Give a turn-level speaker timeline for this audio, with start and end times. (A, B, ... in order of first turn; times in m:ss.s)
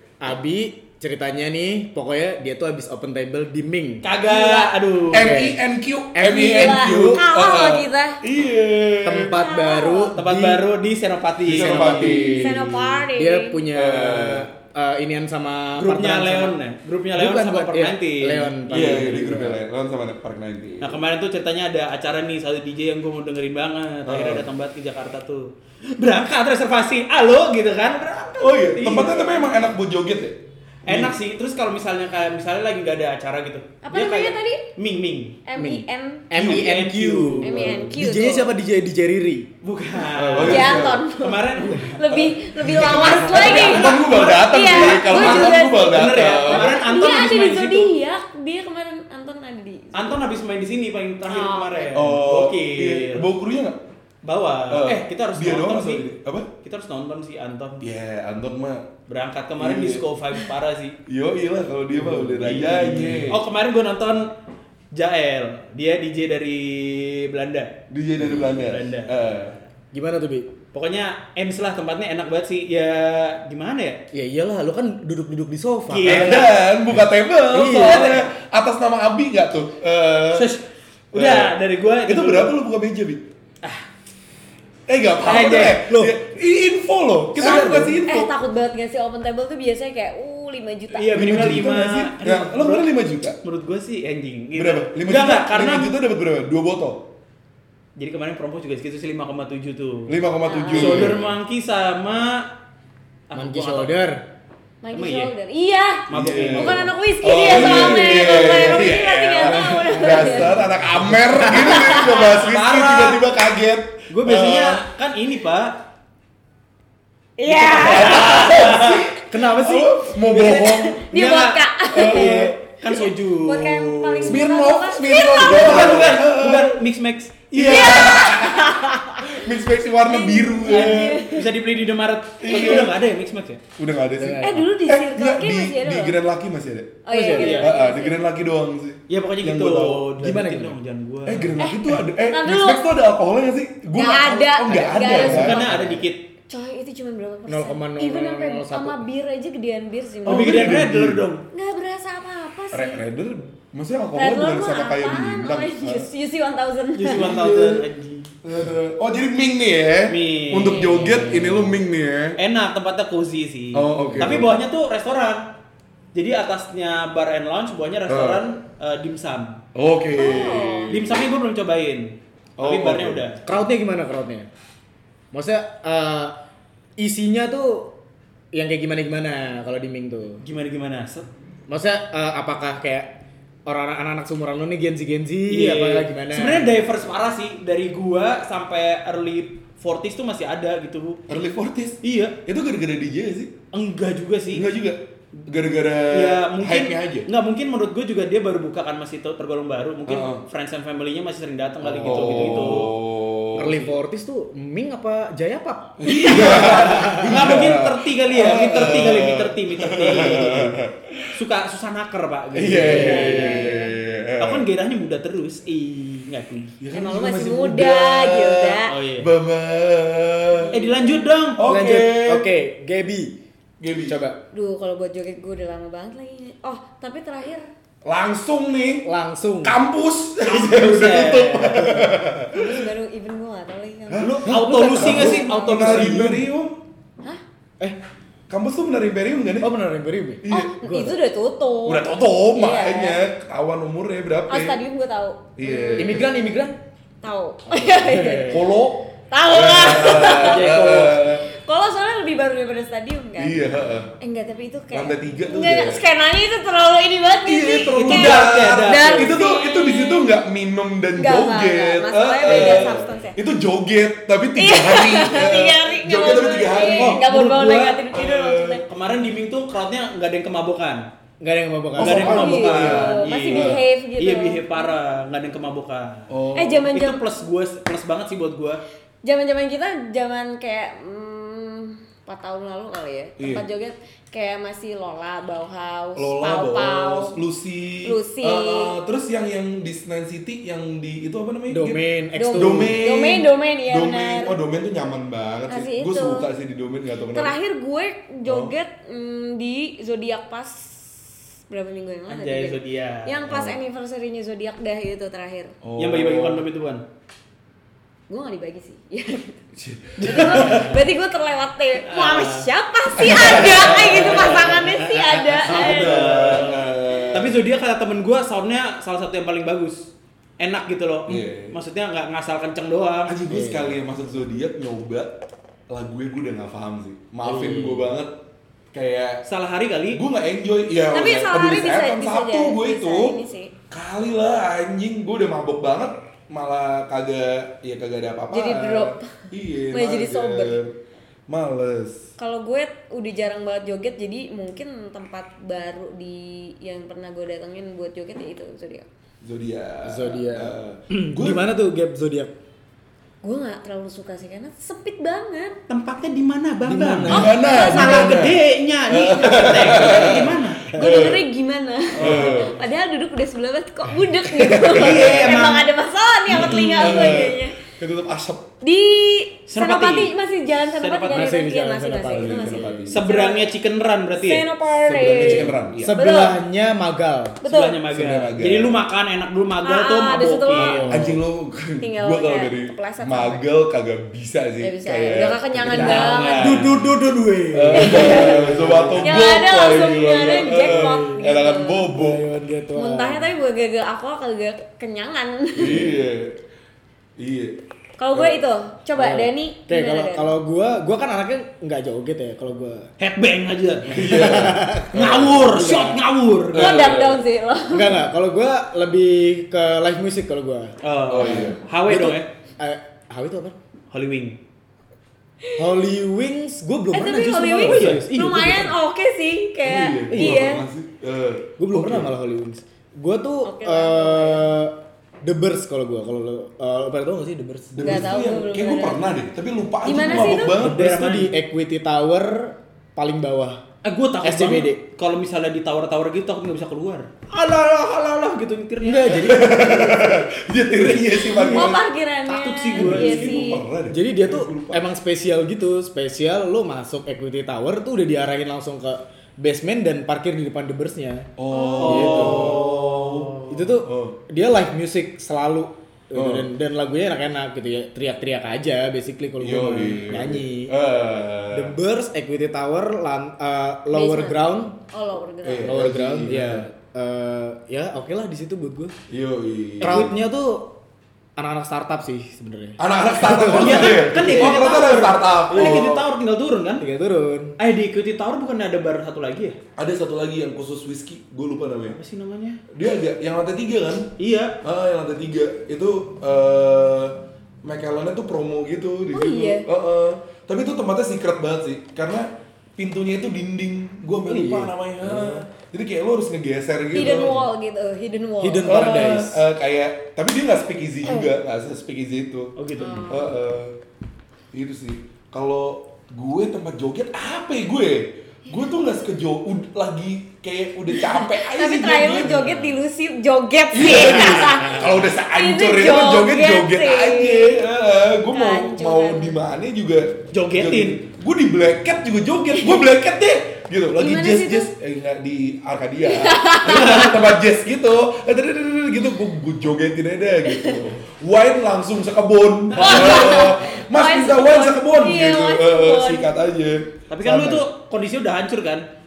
0:00.2-0:04.1 A
0:04.0-0:05.4 B
0:04.2-0:04.7 C
0:05.1-0:09.4 D
0:05.1-0:05.6 A
0:06.2-0:07.2 A
0:06.3-0:08.2 C
0:09.0-0:10.6 A
0:09.3-0:10.1 C
0:10.1-0:12.2 B
0:11.4-0:13.1 D
0:11.5-0:12.6 A
0:12.1-0:13.6 C
0:13.2-0:16.6 A
0:13.7-0:14.5 D
0:15.8-0:19.1 B
0:17.2-0:19.6 A
0:18.7-0:21.0 D
0:20.8-0:29.4 B
0:24.1-0:24.5 D
0:28.4-0:31.1 D
0:30.9-0:35.4 B
0:33.8-0:34.6 C
0:35.4-0:36.3 C
0:35.6-0:39.5 A
0:36.3-0:37.6 B
0:37.4-0:38.5 C
0:37.5-0:37.9 D
0:39.6-0:42.0 B
0:40.2-0:41.0 D
0:40.4-0:50.2 C
0:42.1-0:46.8 D
0:42.8-0:48.0 B
0:49.9-0:53.3 B
0:51.3-0:51.9 C
0:51.9-0:53.8 D
0:54.2-0:56.1 B
0:54.7-0:56.5 D
0:56.6-0:57.9 B
0:57.8-0:58.9 D
0:59.1-1:01.0 B
0:59.6-1:00.0 D
1:01.1-1:03.4 D
1:02.0-1:03.3 A
1:02.4-1:04.3 B
1:04.9-1:07.8 B
1:07.9-1:09.6 D
1:08.3-1:09.4 B
1:09.9-1:10.5 A
1:10.7-1:14.0 B
1:14.1-1:16.5 A
1:15.9-1:16.6 B
1:16.0-1:20.5 D
1:17.5-1:18.1 A
1:17.8-1:18.2 B
1:20.3-1:22.6 B
1:21.1-1:21.6 D
1:22.1-1:23.2 D
1:24.9-1:28.3 D
1:25.2-1:25.8 B
1:25.9-1:26.1 A
1:27.4-1:28.0 B
1:27.4-1:31.6 C
1:30.9-1:32.9 B
1:31.1-1:33.4 D
1:33.4-1:35.9 B
1:34.6-1:37.0 D
1:38.0-1:40.2 B
1:40.1-1:41.3 D
1:40.5-1:41.1 C
1:40.7-1:42.5 B
1:43.3-1:44.0 B
1:43.4-1:44.2 A
1:44.8-1:50.6 C
1:44.9-1:45.3 B
1:46.1-1:48.7 B
1:46.1-1:54.8 D
1:49.7-1:51.5 A
1:51.6-1:53.2 B
1:51.6-1:52.1 C
1:54.1-1:55.8 B
1:57.4-1:58.9 C
1:57.5-2:04.4 B
1:57.8-2:01.0 D
2:00.5-2:06.2 C
2:01.9-2:02.6 D
2:04.2-2:06.8 D
2:05.3-2:08.2 B
2:07.5-2:08.7 D
2:07.6-2:09.4 C
2:09.2-2:11.3 D
2:10.0-2:11.5 C
2:10.6-2:13.6 B
2:12.4-2:13.0 D
2:12.5-2:12.9 C
2:13.8-2:20.1 D
2:14.2-2:14.7 A
2:14.4-2:16.2 C
2:17.1-2:18.2 C
2:17.1-2:17.6 A
2:17.3-2:17.8 B
2:19.1-2:21.6 B
2:20.2-2:20.8 A
2:21.2-2:25.6 D
2:21.6-2:22.8 C
2:24.0-2:25.7 C
2:25.0-2:26.0 A
2:25.1-2:26.2 B
2:26.5-2:30.8 C
2:27.5-2:29.0 A
2:30.2-2:31.2 D
2:30.3-2:31.4 B
2:31.5-2:33.0 C
2:32.7-2:36.1 D
2:34.2-2:37.4 C
2:37.0-2:38.3 B
2:37.1-2:37.8 D
2:38.4-2:42.4 D
2:40.1-2:41.7 B
2:42.4-2:45.5 B
2:43.7-2:44.6 D
2:44.0-2:44.4 A
2:46.1-2:49.6 B
2:48.1-2:48.4 D
2:49.8-2:51.2 D
2:50.1-2:51.0 C
2:50.9-2:53.4 B
2:52.6-2:53.2 D
2:53.4-2:54.5 A
2:55.3-2:56.4 A
2:57.0-2:58.0 A
2:58.5-3:00.4 A
3:00.4-3:01.3 B
3:01.7-3:03.2 A
3:03.7-3:06.8 A
3:05.5-3:11.2 B
3:11.3-3:13.5 D
3:12.0-3:12.4 B
3:13.7-3:14.7 B
3:14.5-3:17.3 D
3:16.1-3:22.9 B
3:20.1-3:20.4 D
3:21.9-3:22.8 A
3:22.0-3:23.9 D
3:23.6-3:27.3 A
3:26.0-3:31.4 D
3:26.2-3:30.8 B
3:31.3-3:33.8 B
3:32.5-3:34.7 D
3:32.6-3:33.5 A
3:32.9-3:34.0 C
3:34.4-3:36.8 B
3:36.8-3:40.8 D
3:36.9-3:39.0 C
3:38.9-3:39.3 B
3:40.7-3:41.6 B
3:40.7-3:41.0 C
3:41.6-3:42.5 D
3:41.6-3:43.4 A
3:43.8-3:44.2 D
3:44.0-3:44.4 A
3:44.5-3:47.7 C
3:48.0-3:49.1 D
3:49.0-3:49.8 A
3:49.6-3:52.9 D
3:50.5-3:52.0 B
3:51.8-3:52.0 A
3:52.5-3:56.2 C
3:54.1-3:56.8 D
3:54.2-3:56.5 B
3:54.4-3:55.4 A
3:58.5-3:59.7 D
3:59.6-4:01.2 A
4:00.4-4:00.8 D
4:00.5-4:03.2 C
4:01.8-4:04.8 D
4:04.5-4:06.3 C
4:05.6-4:06.3 D
4:06.0-4:06.8 A
4:07.2-4:08.6 C
4:07.8-4:08.6 A
4:08.5-4:11.4 D
4:09.3-4:13.6 C
4:10.1-4:11.2 B
4:13.4-4:14.1 D
4:14.2-4:20.3 C
4:14.9-4:16.0 D
4:17.4-4:27.2 D
4:17.8-4:19.4 B
4:21.2-4:23.4 C
4:24.6-4:28.8 C
4:26.8-4:28.1 B
4:28.1-4:28.8 D
4:28.9-4:31.1 B
4:31.4-4:32.5 A
4:32.0-4:33.8 D
4:32.0-4:36.3 B
4:32.1-4:35.0 C
4:36.3-4:36.9 D
4:36.6-4:37.2 C
4:36.8-4:38.8 B
4:39.2-4:47.4 C
4:43.4-4:43.7 D
4:46.2-4:52.0 D
4:48.0-4:49.0 C
4:51.7-4:53.0 A
4:52.4-4:54.5 C
4:52.5-4:57.6 D
4:55.7-4:56.5 C
4:57.3-5:05.8 C
4:58.4-4:58.8 D
5:02.3-5:03.5 B
5:05.8-5:06.7 D
5:06.0-5:07.0 B
5:08.3-5:09.6 C
5:09.8-5:11.0 D
5:10.2-5:16.5 C
5:10.2-5:11.0 B
5:12.0-5:12.7 B
5:13.2-5:14.8 D
5:13.2-5:14.9 B
5:15.6-5:23.4 B
5:15.6-5:17.6 D
5:21.3-5:21.8 D
5:23.3-5:25.3 D
5:23.5-5:23.9 A
5:25.9-5:28.4 D
5:27.4-5:28.1 A
5:28.9-5:29.4 D
5:29.5-5:30.2 B
5:30.1-5:40.9 D
5:31.1-5:33.7 C
5:38.5-5:39.3 C
5:39.9-5:40.8 C
5:41.5-5:42.3 D
5:42.4-5:49.1 C
5:49.4-5:51.6 D
5:50.0-5:52.5 A
5:53.4-5:55.8 C
5:55.9-6:00.9 B
5:56.8-5:57.6 A
5:57.3-6:01.5 D
5:57.3-5:58.5 C
5:59.9-6:00.4 C
6:00.9-6:07.8 C
6:02.2-6:02.7 D
6:02.2-6:02.6 A
6:04.4-6:05.6 D
6:04.9-6:05.9 B
6:06.5-6:08.7 D
6:08.8-6:13.7 C
6:09.7-6:10.3 B
6:10.9-6:11.5 B
6:11.3-6:13.1 A
6:12.3-6:13.2 D
6:13.1-6:14.6 B
6:14.4-6:16.6 C
6:15.0-6:16.2 D
6:15.2-6:17.6 A
6:17.6-6:18.0 C
6:17.6-6:21.0 B
6:18.1-6:19.0 D
6:19.8-6:21.2 C
6:20.7-6:21.4 A
6:21.1-6:27.0 D
6:22.0-6:23.6 C
6:24.8-6:26.8 C
6:25.9-6:27.0 B
6:25.9-6:29.2 A
6:27.7-6:32.4 D
6:27.9-6:28.7 C
6:29.2-6:32.1 C
6:30.0-6:31.5 A
6:32.1-6:33.5 A
6:33.0-6:36.1 C
6:35.7-6:36.6 D
6:37.4-6:37.8 D
6:38.2-6:40.5 C
6:38.3-6:38.6 D
6:39.2-6:43.1 A
6:43.2-6:44.6 B
6:44.1-6:45.7 D
6:44.2-6:46.2 A
6:45.1-6:47.1 B
6:46.7-6:47.4 D
6:46.8-6:48.2 C
6:47.9-6:53.8 A
6:51.0-6:52.5 B
6:51.3-6:51.8 D
6:54.1-6:54.6 B
6:55.8-6:59.0 A
6:57.1-7:00.8 C
6:57.8-6:58.2 B
6:59.8-7:02.3 D
7:00.3-7:00.7 A
7:01.8-7:08.3 A
7:03.6-7:04.7 C
7:07.9-7:11.0 D
7:08.0-7:09.4 C
7:10.0-7:10.8 C
7:10.5-7:11.5 B
7:10.8-7:13.8 A
7:14.0-7:20.1 B
7:14.4-7:15.0 A
7:19.0-7:20.2 A
7:19.3-7:22.0 D
7:21.6-7:21.9 B
7:21.7-7:23.9 C
7:22.5-7:23.6 B
7:23.0-7:25.0 D
7:24.1-7:31.5 A
7:31.6-7:34.4 D
7:31.7-7:32.3 C
7:32.0-7:33.7 B
7:32.0-7:32.9 A
7:33.7-7:40.9 A
7:36.3-7:36.7 D
7:39.6-7:42.0 D
7:41.7-7:45.0 A
7:44.1-7:46.0 C
7:45.6-7:46.9 D
7:45.8-7:49.2 A
7:49.3-7:50.3 D
7:50.0-7:50.9 A
7:51.6-7:54.7 A
7:53.0-7:56.3 D
7:53.7-7:57.0 B
7:57.0-7:57.8 A
7:57.8-7:59.8 B
8:00.0-8:02.2 D
8:02.1-8:02.8 B
8:02.9-8:17.6 D
8:04.4-8:04.8 B
8:09.3-8:09.9 C
8:14.5-8:15.6 A
8:17.1-8:19.4 C
8:18.6-8:19.6 A
8:18.8-8:24.0 D
8:22.8-8:23.4 B
8:23.0-8:23.6 C
8:24.7-8:32.9 D
8:31.2-8:37.8 C
8:33.9-8:57.8 D
8:38.5-8:39.6 C
8:40.5-8:41.2 B
8:42.8-8:43.0 C
8:44.2-8:44.9 C
8:46.2-8:47.6 C
8:50.7-8:51.0 C
8:52.9-8:53.5 B
8:53.0-8:56.5 C
8:57.3-8:59.1 B